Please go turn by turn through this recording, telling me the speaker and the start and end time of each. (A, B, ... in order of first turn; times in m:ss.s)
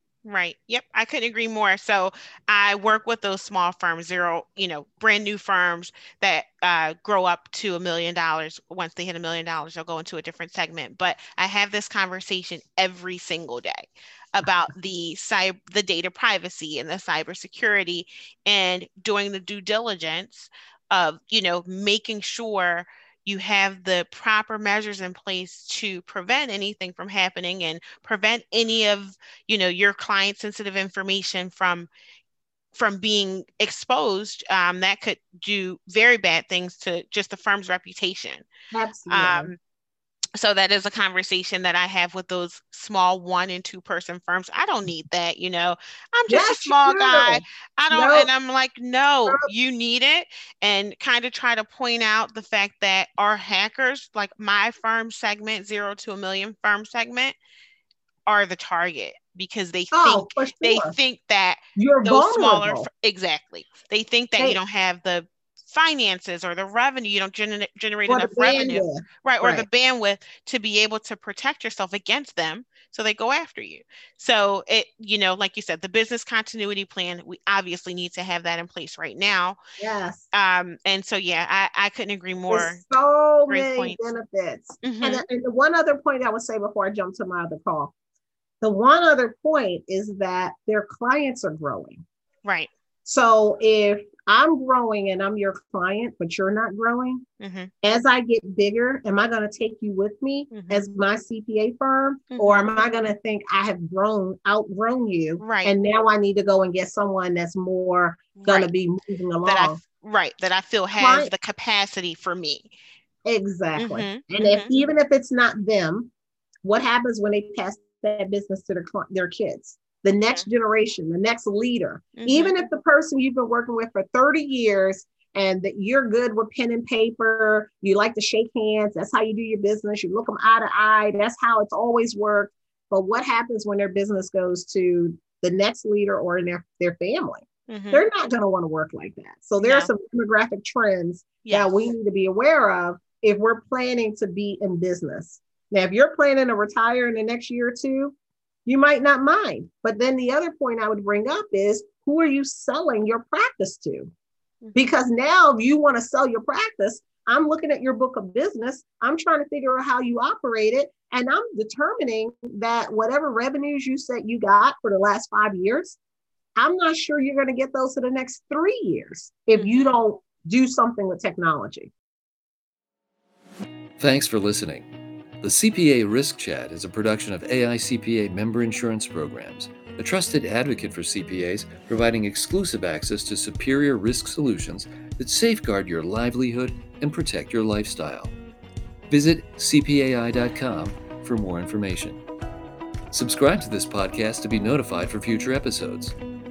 0:00.2-0:31.9 A
0:32.7-0:38.4 A
0:38.7-0:39.5 B
0:39.1-0:39.6 A
0:40.4-0:57.3 A
0:46.3-0:48.3 B
0:58.3-1:19.6 A
0:59.9-1:00.9 B
1:01.8-1:02.9 B
1:08.1-1:09.6 B
1:19.8-1:20.3 B
1:20.3-1:22.8 A
1:22.5-1:27.9 B
1:23.5-1:24.0 A
1:24.8-1:25.2 A
1:28.6-1:32.0 B
1:32.4-1:32.7 A
1:33.0-1:37.2 B
1:37.4-1:37.7 A
1:37.8-1:49.8 B
1:40.5-1:40.8 A
1:42.3-1:42.9 A
1:45.4-1:45.7 A
1:48.4-1:48.7 A
1:49.4-1:52.7 A
1:51.0-1:51.3 B
1:53.2-1:56.1 B
1:53.8-1:54.8 A
1:56.6-2:28.1 B
2:02.2-2:02.5 A
2:17.7-2:18.0 A
2:19.6-2:19.9 A
2:21.4-2:21.9 A
2:28.6-2:34.1 B
2:34.7-2:46.0 B
2:46.6-2:51.9 B
2:49.5-2:49.9 A
2:54.0-2:54.9 C
2:55.4-3:08.3 C
3:09.1-3:12.2 C
3:13.1-3:16.2 C